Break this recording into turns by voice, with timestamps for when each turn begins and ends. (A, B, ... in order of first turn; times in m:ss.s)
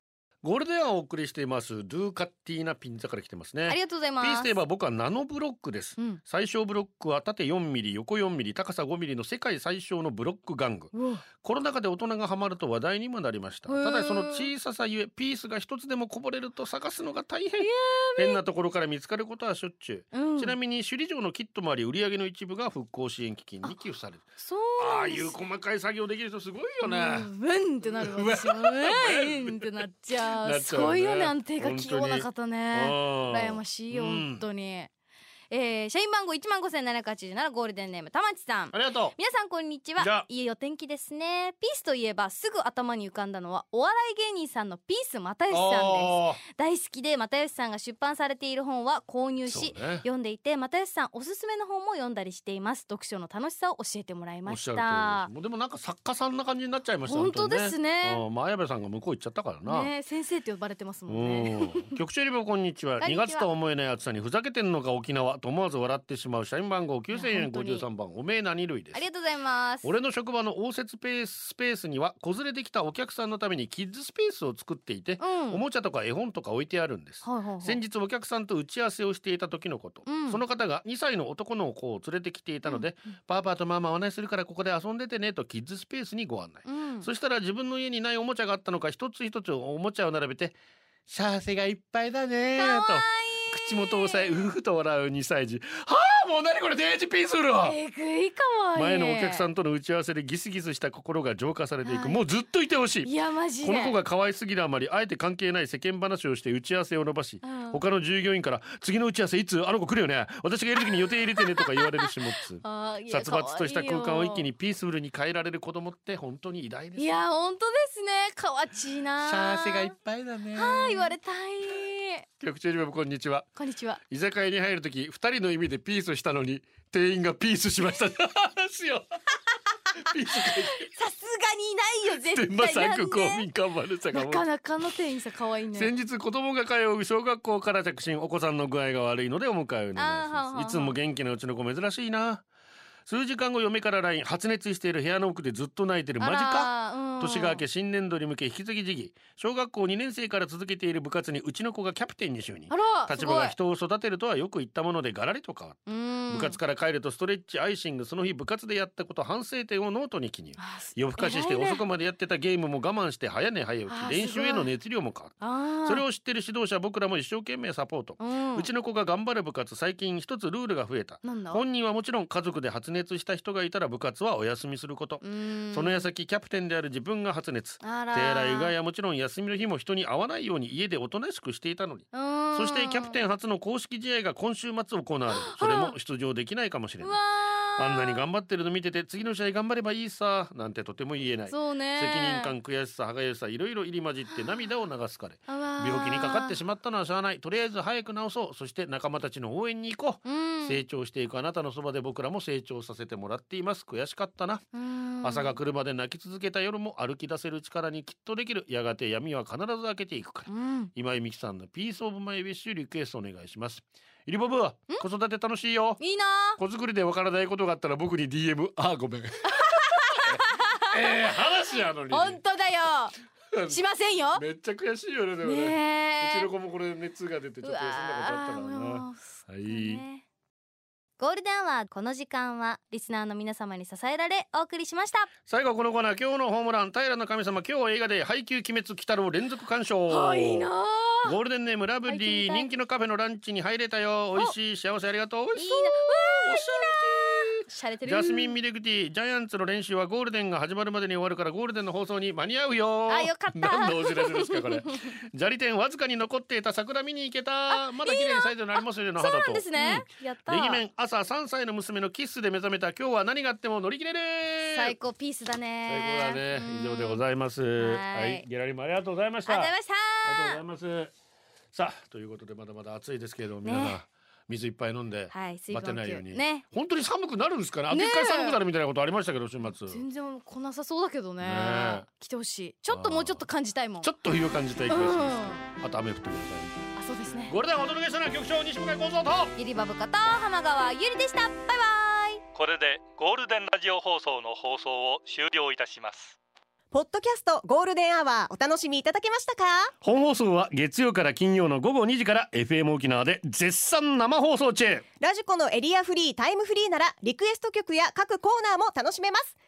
0:00.4-0:24.3 A
0:03.7-0:04.6 B
0:10.9-0:11.2 B
0:13.7-0:14.5 B
0:17.6-0:18.4 B
0:20.1-0:20.6 B
0:24.4-0:25.3 B
0:24.8-0:27.3 A
0:26.8-0:34.9 B
0:27.8-0:29.7 A
0:30.3-0:34.4 A
0:35.5-0:55.3 B
0:38.7-0:39.1 A
0:40.0-0:40.3 A
0:45.5-0:46.4 A
0:49.5-0:50.0 A
0:54.4-0:59.9 A
0:57.0-0:58.2 B
0:59.6-1:01.9 B
1:01.1-1:09.0 A
1:03.0-1:03.5 B
1:07.1-1:07.8 B
1:08.9-1:09.9 B
1:09.8-1:30.6 A
1:15.2-1:15.6 B
1:17.2-1:17.8 B
1:20.0-1:20.4 B
1:26.6-1:27.1 B
1:31.1-1:37.8 A
1:32.6-1:34.5 B
1:37.6-1:39.4 B
1:38.7-1:57.2 A
1:41.8-1:42.2 B
1:43.0-1:44.0 B
1:47.4-1:47.8 B
1:51.4-1:54.4 B
1:57.0-2:00.0 B
1:59.2-2:01.2 A
2:00.5-2:02.2 B
2:02.4-2:03.5 A
2:03.6-2:04.0 B
2:04.1-2:09.2 A
2:09.9-2:10.9 A
2:10.3-2:13.5 B
2:12.1-2:14.5 A
2:14.1-2:15.9 B
2:15.7-2:22.4 A
2:19.9-2:20.9 B
2:23.1-3:07.2 A
2:26.2-2:27.6 B
2:32.7-2:33.6 B
2:35.9-2:36.6 B
2:40.6-2:41.8 B
2:43.9-2:44.7 B
2:45.4-2:46.0 B
2:48.2-2:48.7 B
2:51.2-2:51.6 B
2:55.2-2:56.1 B
2:57.8-2:58.7 B
3:02.1-3:03.2 B
3:05.3-3:06.0 B
3:07.0-3:08.2 B
3:07.8-3:24.6 A
3:11.5-3:12.5 B
3:15.5-3:16.6 B
3:20.2-3:20.8 B
3:24.7-3:25.6 B
3:25.2-3:36.0 A
3:30.5-3:30.9 B
3:36.0-3:36.6 B
3:36.6-3:42.4 A
3:39.5-3:40.9 B
3:42.1-3:43.1 B
3:43.5-3:43.8 A
3:43.7-3:44.4 B
3:44.3-3:50.0 A
3:45.4-3:46.5 B
3:47.6-3:50.2 B
3:51.2-3:55.3 B
3:55.5-4:00.7 A
4:00.1-4:01.4 B
4:01.2-4:25.0 A
4:02.0-4:02.7 B
4:05.5-4:08.6 B
4:13.1-4:15.2 B
4:17.7-4:20.8 B
4:24.6-4:27.2 B
4:25.9-4:29.7 A
4:27.8-4:28.4 B
4:29.4-4:30.6 B
4:30.2-4:31.1 A
4:31.7-4:40.0 A
4:33.6-4:34.0 B
4:35.3-4:36.6 B
4:37.9-4:38.6 B
4:39.6-4:44.1 B
4:41.4-4:42.0 A
4:42.9-4:43.4 A
4:44.0-4:46.9 A
4:44.9-4:45.7 B
4:47.0-4:47.6 B
4:47.5-4:49.5 A
4:49.6-4:52.4 B
4:52.5-4:56.4 C
4:56.9-4:59.9 D
5:00.0-5:05.0 A
5:05.2-5:09.6 D